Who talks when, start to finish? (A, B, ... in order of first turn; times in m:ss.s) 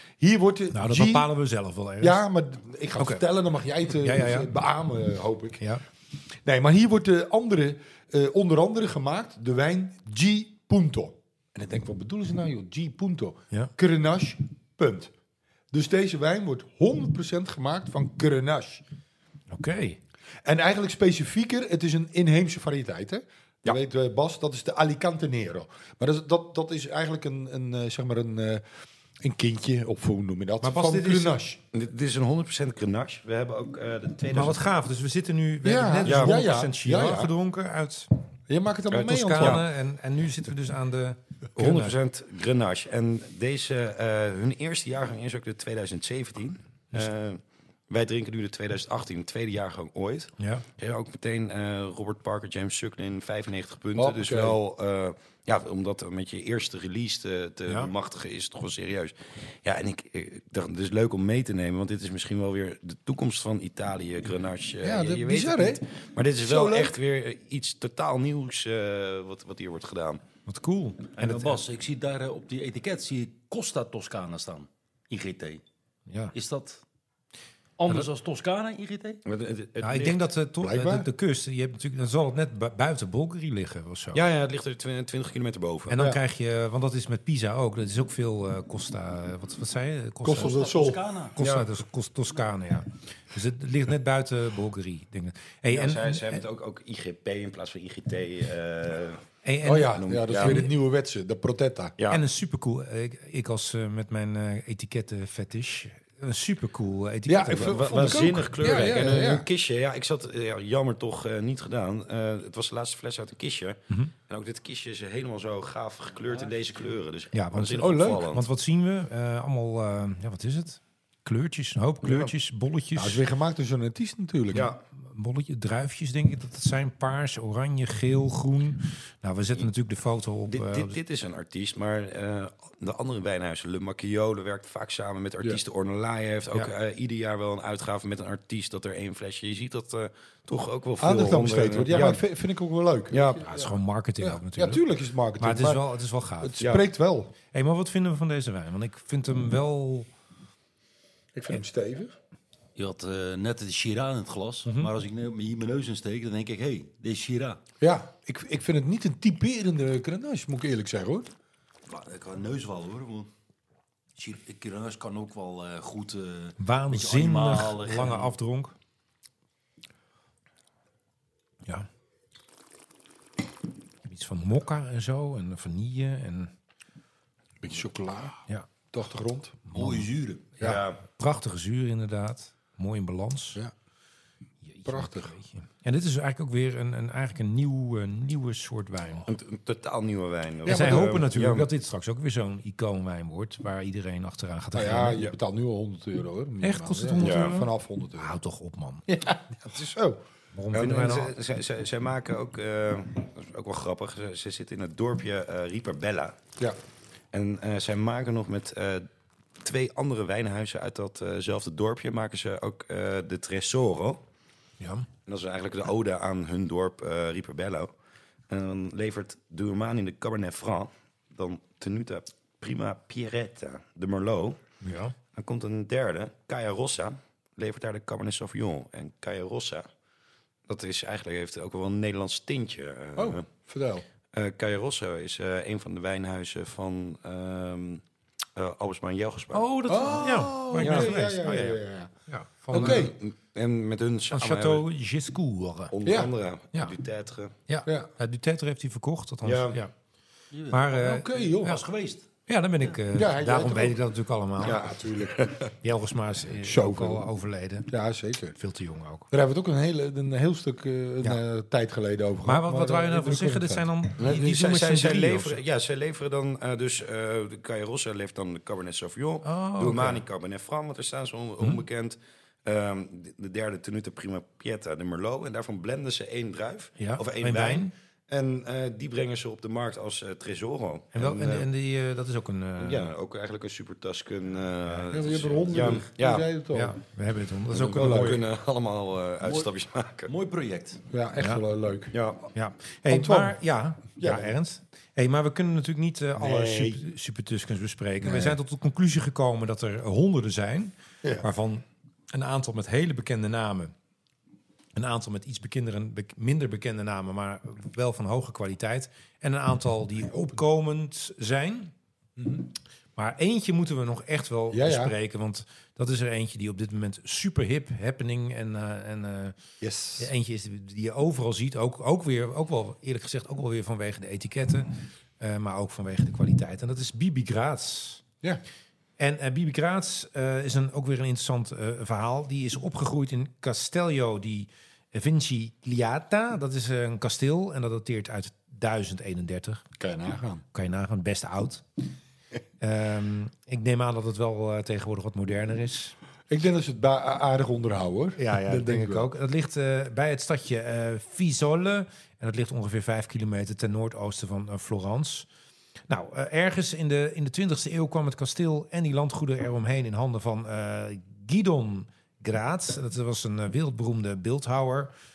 0:00.2-0:01.3 A
0:00.7-0:02.2 B
0:02.0-0:05.6 A
0:03.0-0:03.2 B
0:04.0-0:04.5 B
0:06.4-0:15.1 A
0:15.7-0:18.8 A
0:19.5-0:20.0 B
0:20.4-0:28.6 A
0:29.2-0:31.6 A
0:30.6-0:31.4 B
0:31.7-0:34.7 C
0:34.3-0:38.1 B
0:35.6-0:37.3 A
0:36.0-0:36.4 C
0:38.5-0:39.6 A
0:38.9-0:39.6 C
0:38.9-0:42.0 B
0:41.6-1:10.2 C
0:50.4-0:50.6 B
0:54.0-0:54.6 A
1:04.8-1:05.8 A
1:06.4-1:07.0 A
1:10.4-1:11.6 B
1:11.2-1:15.6 D
1:16.1-1:16.3 B
1:16.3-1:16.8 D
1:17.8-1:19.2 D
1:19.2-1:20.2 C
1:19.8-1:24.2 B
1:20.6-1:21.1 A
1:24.1-1:26.0 C
1:25.9-1:30.6 B
1:25.9-1:26.2 A
1:30.2-1:31.0 A
1:30.3-1:31.3 D
1:31.3-1:36.4 B
1:31.4-1:31.7 C
1:35.7-1:39.2 C
1:39.4-1:40.7 B
1:39.6-1:42.0 A
1:39.9-1:40.6 C
1:42.1-1:48.4 B
1:47.3-1:49.5 A
1:47.6-1:58.4 C
1:56.3-1:56.9 D
1:57.3-2:03.2 B
1:57.8-1:58.3 A
2:02.0-2:02.3 C
2:02.9-2:04.7 A
2:04.5-2:04.8 C
2:04.9-2:11.0 B
2:10.5-2:22.2 C
2:21.0-2:25.8 A
2:23.1-2:23.6 C
2:23.5-2:24.8 B
2:25.4-2:26.5 B
2:26.4-2:27.3 A
2:26.6-2:26.8 C
2:27.5-2:30.1 B
2:31.3-2:32.1 A
2:32.8-2:37.6 D
2:37.8-2:41.3 A
2:41.9-2:43.3 D
2:44.2-2:48.3 D
2:46.6-2:48.7 B
2:54.0-2:56.5 B
2:57.6-2:59.6 A
2:59.7-3:00.0 B
2:59.7-3:00.5 D
3:00.6-3:00.8 A
3:00.6-3:01.0 C
3:01.1-3:03.6 B
3:04.6-3:09.2 B
3:04.8-3:05.3 A
3:09.2-3:11.7 C
3:10.6-3:11.2 A
3:10.6-3:15.2 B
3:14.7-3:18.4 A
3:16.6-3:19.0 B
3:17.2-3:17.5 C
3:19.1-3:20.2 A
3:20.5-3:21.3 B
3:20.7-3:26.4 C
3:27.3-3:29.1 C
3:29.6-3:34.2 C
3:34.8-3:35.1 B
3:35.2-3:37.9 C
3:38.5-3:44.6 C
3:44.8-3:45.1 B
3:45.3-3:49.9 C
3:50.7-3:53.4 C
3:53.2-3:54.0 A
3:54.3-3:58.0 C
3:58.6-3:59.6 C
3:59.5-4:03.1 B
3:59.9-4:02.1 A
4:00.8-4:01.1 C
4:02.7-4:03.1 A
4:02.7-4:04.8 C
4:04.3-4:05.9 B
4:05.9-4:07.5 C
4:06.0-4:06.3 A
4:07.7-4:09.9 B
4:09.4-4:09.8 C
4:10.5-4:12.2 D
4:10.7-4:11.8 B
4:10.9-4:11.8 A
4:12.5-4:14.8 B
4:13.1-4:14.0 A
4:14.6-4:15.5 A
4:14.6-4:15.7 C
4:15.8-4:17.9 B
4:16.6-4:17.2 A
4:17.9-4:18.6 A
4:18.5-4:19.3 B
4:19.3-4:23.9 A
4:22.4-4:25.6 B
4:24.2-4:41.7 C
4:29.4-4:30.2 B
4:37.0-4:37.9 B
4:41.1-4:43.1 B
4:42.8-4:46.5 C
4:45.1-4:46.9 A
4:45.3-4:46.0 D
4:46.7-4:48.4 B
4:47.7-4:50.3 C
4:47.7-4:48.4 A
4:49.4-4:49.7 D
4:50.3-4:51.0 D
4:51.1-4:52.1 A
4:51.4-4:51.6 B
4:52.1-4:52.5 C
4:52.5-5:03.9 B
4:53.1-4:53.6 A
4:54.2-4:54.5 A
4:56.4-4:57.0 A
4:58.2-4:58.5 A
5:04.9-5:11.9 B
5:12.4-5:12.6 A
5:13.2-5:19.6 B
5:14.7-5:15.2 A
5:19.8-5:20.3 A
5:20.2-5:24.9 B
5:25.4-5:28.2 B
5:29.2-5:39.8 B
5:40.0-5:40.6 A
5:40.7-5:41.8 B
5:42.8-5:46.1 B
5:46.5-5:49.3 A
5:48.4-5:55.5 B
5:56.1-6:05.1 B